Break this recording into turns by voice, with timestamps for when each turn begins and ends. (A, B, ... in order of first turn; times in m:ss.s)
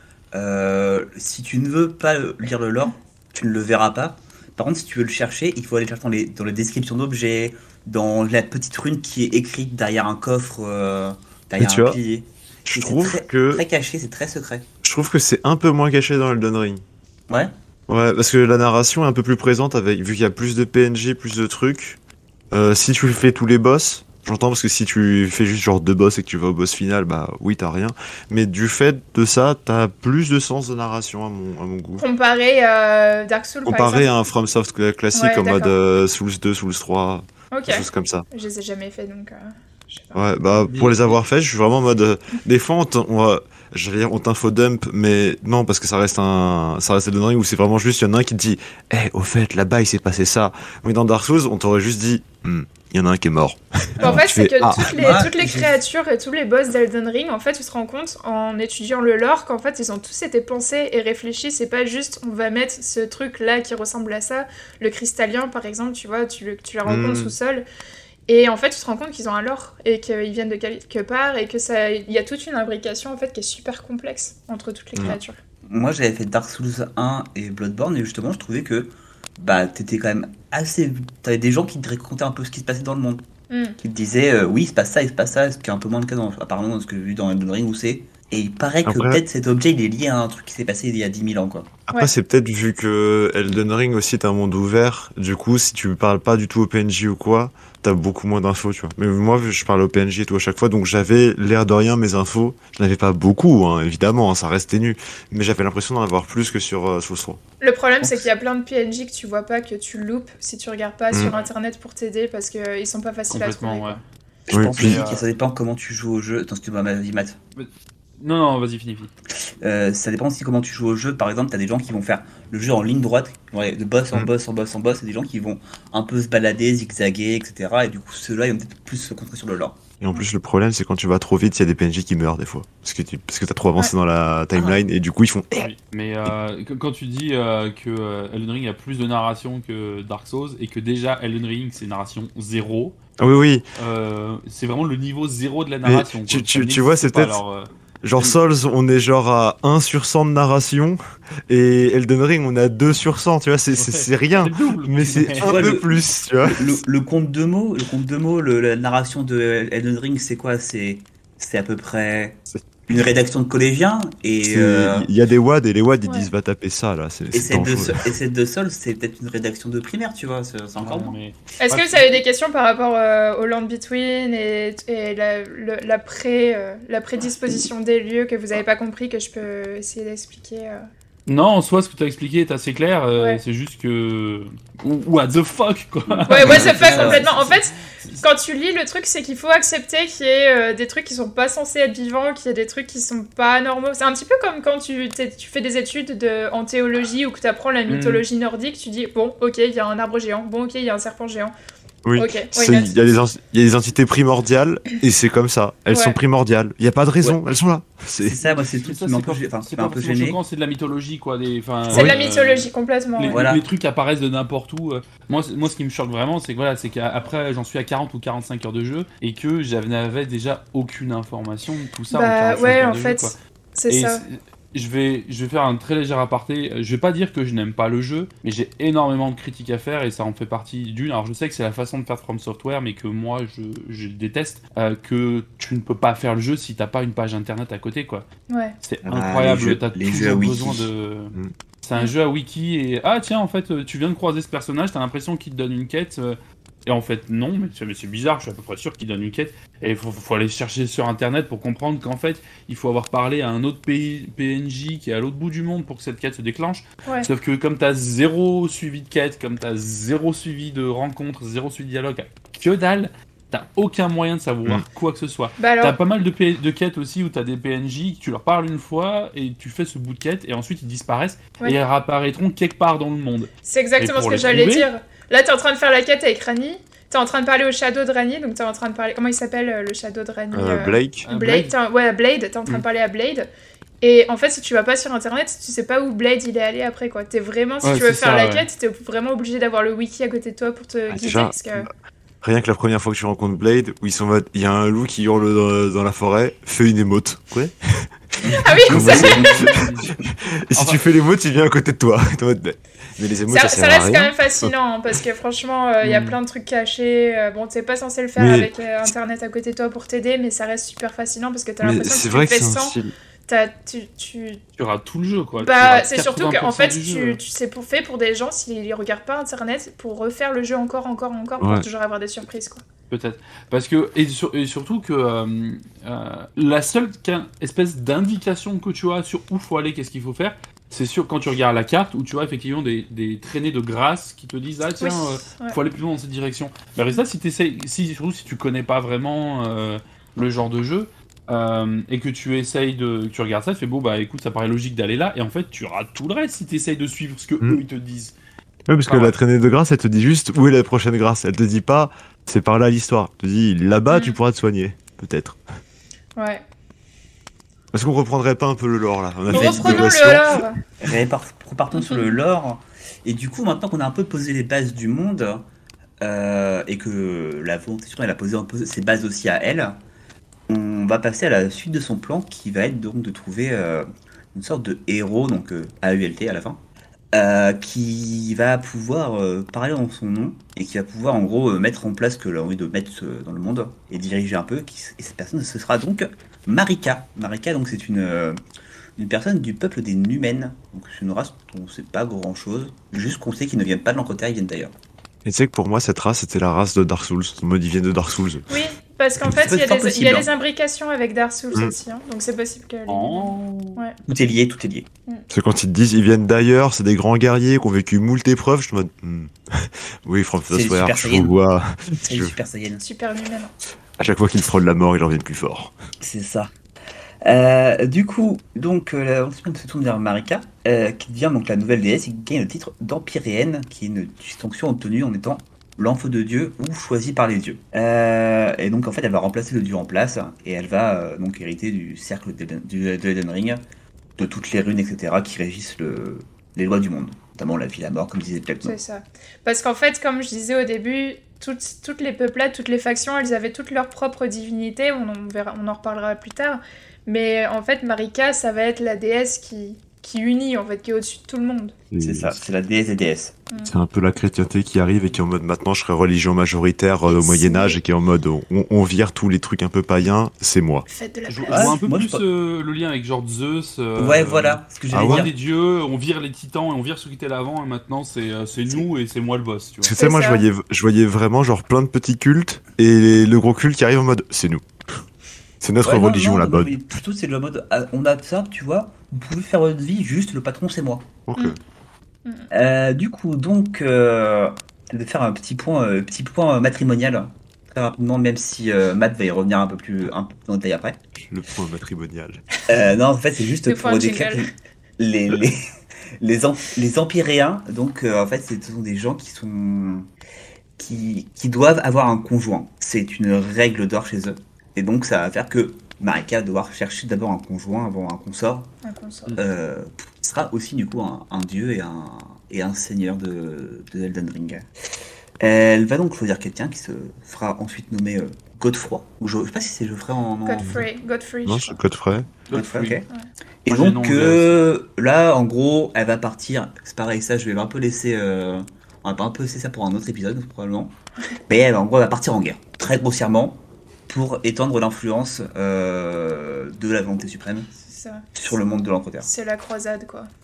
0:00.3-0:14.7 A
0:11.6-0:12.0 B
0:12.7-0:13.6 B
0:14.8-0:16.8 B
0:17.9-0:22.0 B
0:22.5-0:32.0 B
0:32.0-0:34.1 C
0:33.6-0:38.3 B
0:35.1-0:35.8 C
0:37.5-0:40.3 C
0:40.2-0:54.9 B
0:40.7-0:41.1 D
0:54.0-1:07.6 C
0:54.8-0:55.8 A
1:06.8-1:07.3 B
1:08.3-1:15.4 C
1:15.7-1:23.2 A
1:23.5-1:23.8 C
1:23.8-1:31.7 A
1:28.8-1:29.2 B
1:31.9-1:47.4 B
1:47.6-1:54.0 C
1:53.3-1:54.0 D
1:54.5-1:57.4 A
1:54.5-1:55.0 B
1:54.7-1:55.3 D
1:57.6-1:59.1 D
1:59.6-2:09.8 A
2:10.0-2:15.7 B
2:15.6-2:23.0 D
2:23.2-2:23.6 B
2:23.8-2:28.4 D
2:25.8-2:27.4 B
2:28.0-2:36.8 B
2:33.8-2:35.8 D
2:35.4-2:45.1 A
2:44.4-2:48.1 B
2:46.0-2:46.3 C
2:47.3-2:51.2 A
2:50.8-2:52.2 D
2:51.6-3:00.8 C
3:01.3-3:08.2 D
3:06.1-3:07.3 A
3:06.3-3:21.5 C
3:17.9-3:18.2 D
3:22.0-3:28.4 B
3:22.2-3:22.9 C
3:28.2-3:30.4 A
3:28.5-3:43.4 D
3:31.9-3:33.4 C
3:33.3-3:33.6 A
3:42.1-3:44.2 C
3:43.9-3:58.3 D
3:58.5-3:58.8 C
3:58.8-4:34.9 D
3:59.0-4:00.9 A
4:25.6-4:26.0 C
4:33.6-4:43.5 C
4:40.5-4:41.3 B
4:41.2-4:41.7 D
4:44.0-4:51.9 C
4:47.8-4:48.7 D
4:51.1-4:51.6 B
4:52.4-4:58.1 B
4:58.4-4:59.9 A
4:58.5-4:59.6 C
4:58.8-5:04.7 B
4:59.5-5:00.1 D
5:03.5-5:13.0 C
5:06.0-5:06.4 D
5:08.4-5:09.1 B
5:11.8-5:13.1 B
5:13.5-5:14.6 C
5:14.8-5:17.4 D
5:15.6-5:22.8 C
5:21.6-5:21.9 B
5:23.1-5:48.4 D
5:35.0-5:35.8 C
5:48.9-5:55.6 B
5:49.1-5:49.4 D
5:54.1-5:54.4 C
5:56.4-5:56.6 C
5:57.9-6:00.6 B
5:59.5-6:00.2 A
5:59.5-6:00.8 C
6:01.0-6:05.6 A
6:02.1-6:02.3 C
6:06.2-6:10.0 A
6:10.7-6:16.8 A
6:17.3-6:28.6 A
6:29.2-6:34.9 A
6:35.4-6:38.7 B
6:38.7-6:44.2 C
6:39.4-6:40.5 A
6:43.1-6:44.0 D
6:44.3-6:45.1 A
6:45.5-6:52.6 B
6:50.7-6:51.5 A
6:52.2-6:53.0 A
6:53.0-6:53.7 C
6:54.2-6:55.9 B
6:56.2-6:56.7 A
6:57.4-7:13.8 A
7:14.4-7:19.0 A
7:18.8-7:32.0 C
7:32.1-7:32.6 B
7:32.2-7:33.6 A
7:33.8-7:41.1 B
7:37.3-7:38.0 C
7:41.1-7:42.0 C
7:41.5-7:50.1 D
7:41.7-7:42.4 A
7:44.2-7:45.5 A
7:45.1-7:45.5 B
7:50.0-7:54.8 B
7:50.2-7:50.6 C
7:55.8-7:56.9 B
7:56.0-8:01.3 A
8:01.5-8:01.8 B
8:02.7-8:11.2 A
8:11.4-8:12.6 B
8:12.9-8:15.8 A
8:13.9-8:14.7 C
8:16.4-8:20.3 A
8:21.0-8:28.9 A
8:29.0-8:29.6 C
8:29.6-8:34.9 A
8:35.6-8:41.0 A
8:40.6-8:42.0 C
8:41.7-8:42.5 B
8:42.7-8:43.2 D
8:42.7-8:43.3 A
8:43.9-8:51.1 A
8:43.9-8:44.9 D
8:51.7-8:57.9 A
8:58.0-8:58.6 C
8:58.6-8:59.5 A
8:59.4-9:00.5 C